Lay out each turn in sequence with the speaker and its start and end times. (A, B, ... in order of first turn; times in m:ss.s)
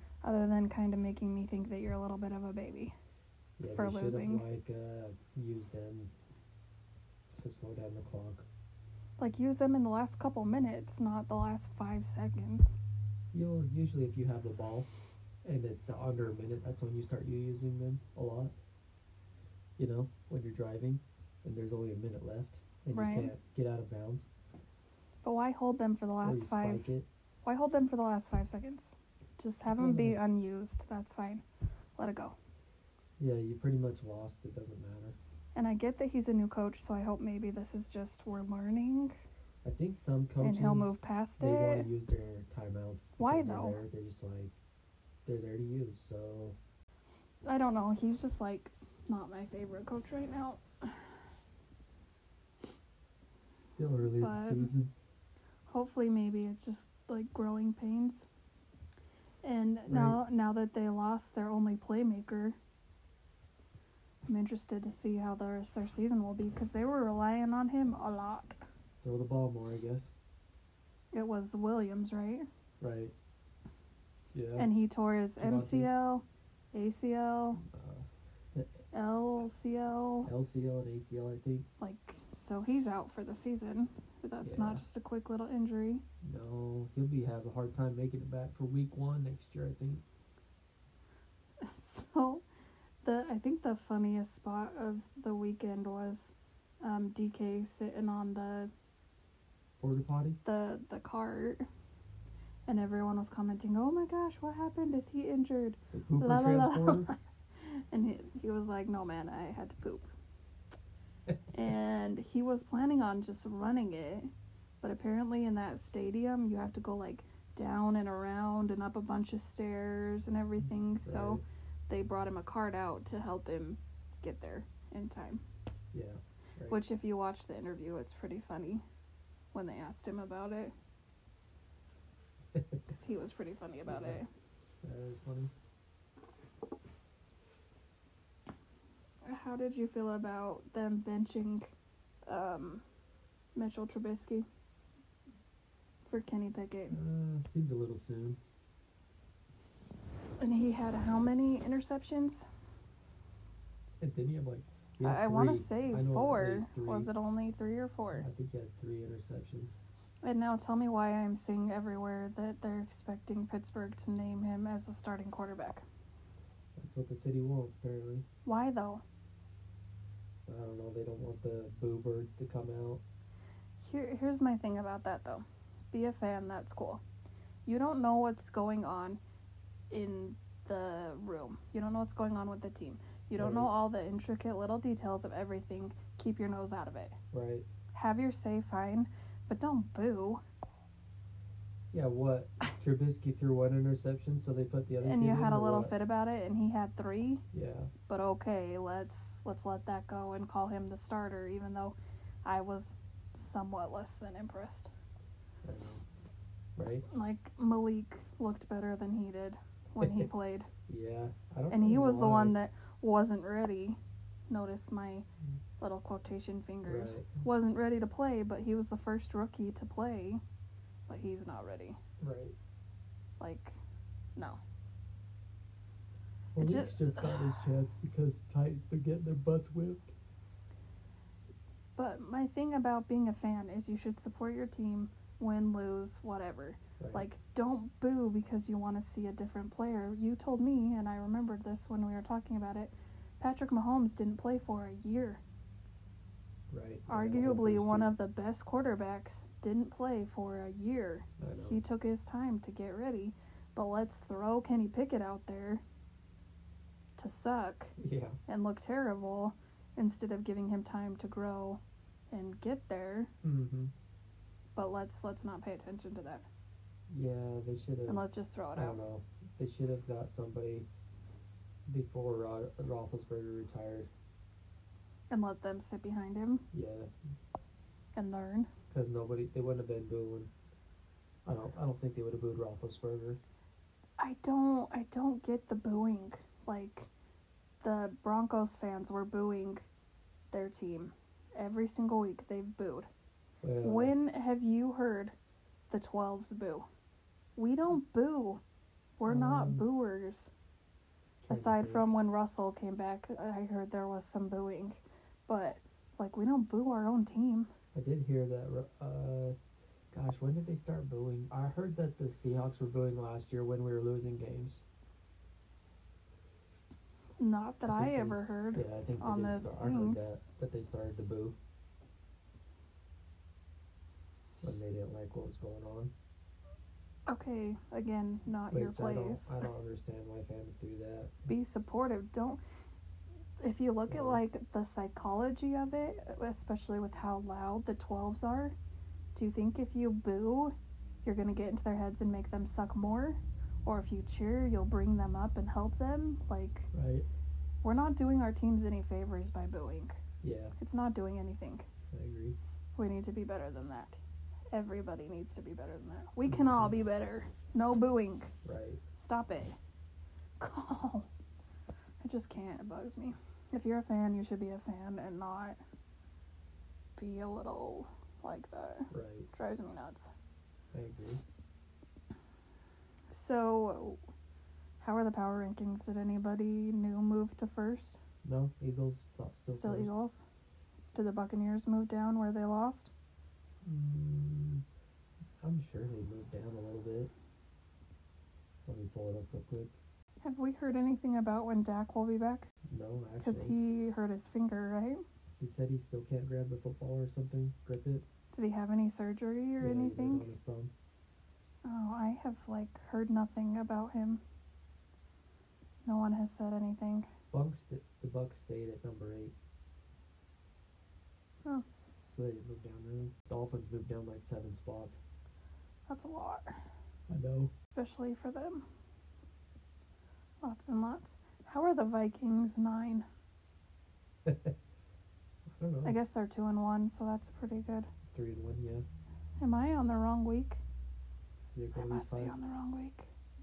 0:00.2-0:02.9 A
0:03.6-0:06.1 B
0:03.6-0:04.4 A
0:07.3-0:08.5 B
0:09.2-0:12.8 A
0:13.3-0:14.9 B
0:15.4-0:18.5 B
0:19.8-0:24.3 B
0:22.9-0:23.3 A
0:25.2-0:26.9 A
0:26.2-0:27.0 B
0:27.4-0:31.4 A
0:29.8-0:30.2 B
0:32.0-0:32.4 A
0:33.2-0:35.2 B
0:35.6-0:39.2 A
0:39.6-0:44.6 B
0:40.4-0:41.9 A
0:43.2-0:43.8 A
0:45.2-0:46.6 B
0:47.4-0:50.9 A
0:53.7-0:54.9 B
0:54.2-0:54.7 A
0:55.7-0:58.2 A
0:59.4-1:02.6 A
0:59.9-1:00.2 B
1:04.2-1:08.6 A
1:09.0-1:10.1 B
1:11.1-1:12.5 A
1:12.8-1:13.1 B
1:14.3-1:14.7 B
1:14.6-1:17.6 A
1:15.4-1:15.9 B
1:17.6-1:18.8 B
1:18.9-1:20.3 A
1:20.2-1:21.6 B
1:21.8-1:26.0 A
1:24.4-1:24.8 B
1:26.2-1:30.0 B
1:31.6-1:32.4 A
1:33.0-1:38.7 A
1:39.8-1:40.4 B
1:40.4-1:41.6 A
1:42.7-1:50.1 A
1:45.9-1:47.1 B
1:51.5-1:54.3 A
1:54.8-2:05.4 A
2:01.0-2:01.4 B
2:05.9-2:06.8 B
2:06.7-2:08.8 A
2:09.5-2:10.7 A
2:12.5-2:12.8 B
2:12.9-2:14.3 A
2:13.9-2:14.2 B
2:14.8-2:15.5 B
2:19.2-2:21.7 A
2:22.3-2:22.8 A
2:23.6-2:24.4 A
2:26.1-2:27.0 A
2:26.9-2:28.4 B
2:30.4-2:32.4 A
2:34.0-2:37.1 B
2:35.0-2:38.3 A
2:38.2-2:39.8 B
2:40.2-2:45.8 A
2:46.8-2:48.2 B
2:48.4-2:49.0 A
2:50.5-2:53.0 B
2:53.8-2:57.0 A
2:57.6-2:59.2 A
2:59.9-3:07.2 A
3:03.4-3:03.7 B
3:07.3-3:07.6 B
3:07.9-3:10.4 A
3:11.9-3:15.9 B
3:15.0-3:17.4 A
3:17.5-3:17.9 B
3:18.1-3:24.9 A
3:25.6-3:26.0 B
3:26.8-3:27.0 B
3:27.1-3:30.7 A
3:30.0-3:30.3 B
3:30.9-3:32.6 B
3:31.7-3:34.0 A
3:34.5-3:35.2 A
3:35.8-3:40.4 A
3:36.9-3:37.4 B
3:41.1-3:42.0 A
3:42.2-3:42.6 B
3:43.4-3:43.8 A
3:46.5-3:50.1 B
3:46.6-3:47.6 A
3:52.0-4:05.4 A
3:57.0-3:57.2 B
4:06.7-4:08.2 B
4:07.1-4:15.8 A
4:11.4-4:11.8 B
4:17.2-4:18.0 A
4:18.0-4:18.4 B
4:18.5-4:23.3 A
4:23.4-4:23.9 B
4:24.8-4:26.4 A
4:27.1-4:28.2 B
4:28.1-4:29.0 A
4:28.7-4:30.9 B
4:31.9-4:34.1 B
4:35.3-4:36.6 A
4:36.7-4:37.1 B
4:38.2-4:38.7 A
4:38.9-4:40.5 B
4:41.4-4:43.4 B
4:44.2-4:47.1 A
4:47.8-4:49.9 A
4:50.5-4:53.1 A
4:53.6-4:54.1 B
4:53.8-4:55.3 A
4:55.9-4:56.9 A
4:57.6-4:58.6 A
4:59.2-5:00.5 A
4:59.3-4:59.8 B
5:01.4-5:02.0 B
5:01.5-5:07.7 A
5:07.9-5:09.6 B
5:10.1-5:14.8 B
5:17.4-5:20.3 A
5:17.9-5:21.6 B
5:24.6-5:26.1 B
5:27.3-5:29.6 A
5:28.7-5:31.4 B
5:31.5-5:32.6 A
5:33.6-5:38.8 A
5:34.1-5:34.4 B
5:39.3-5:46.9 A
5:46.9-5:47.3 B
5:47.8-5:50.2 A
5:50.4-5:50.7 B
5:50.8-5:51.9 A
5:52.1-5:52.6 B
5:53.0-5:54.2 A
5:54.7-5:58.5 A
5:56.5-5:56.9 B
5:58.6-5:59.0 B
5:59.2-5:59.8 A
6:00.6-6:01.3 A
6:02.2-6:05.8 A
6:07.2-6:10.3 A
6:09.1-6:09.5 B
6:10.9-6:11.4 B
6:13.3-6:14.2 A
6:15.0-6:18.2 A
6:18.4-6:20.1 B
6:19.7-6:20.4 A
6:21.1-6:23.1 A
6:23.8-6:24.8 B
6:25.6-6:27.3 B
6:28.8-6:29.9 B
6:30.4-6:32.7 A
6:32.9-6:33.7 B
6:33.4-6:35.2 A
6:35.6-6:38.2 B
6:38.5-6:40.5 A
6:39.8-6:40.9 B
6:41.8-6:44.4 A
6:46.0-6:47.3 A
6:47.5-6:49.5 B
6:52.3-6:55.2 B
6:56.1-6:56.7 A
6:57.3-6:57.7 B
6:58.0-6:58.8 A
7:00.6-7:03.2 A
7:04.4-7:04.7 B
7:05.7-7:06.2 B
7:06.0-7:08.1 A
7:08.3-7:09.0 B
7:09.6-7:10.8 A
7:11.7-7:12.6 B
7:11.9-7:13.3 A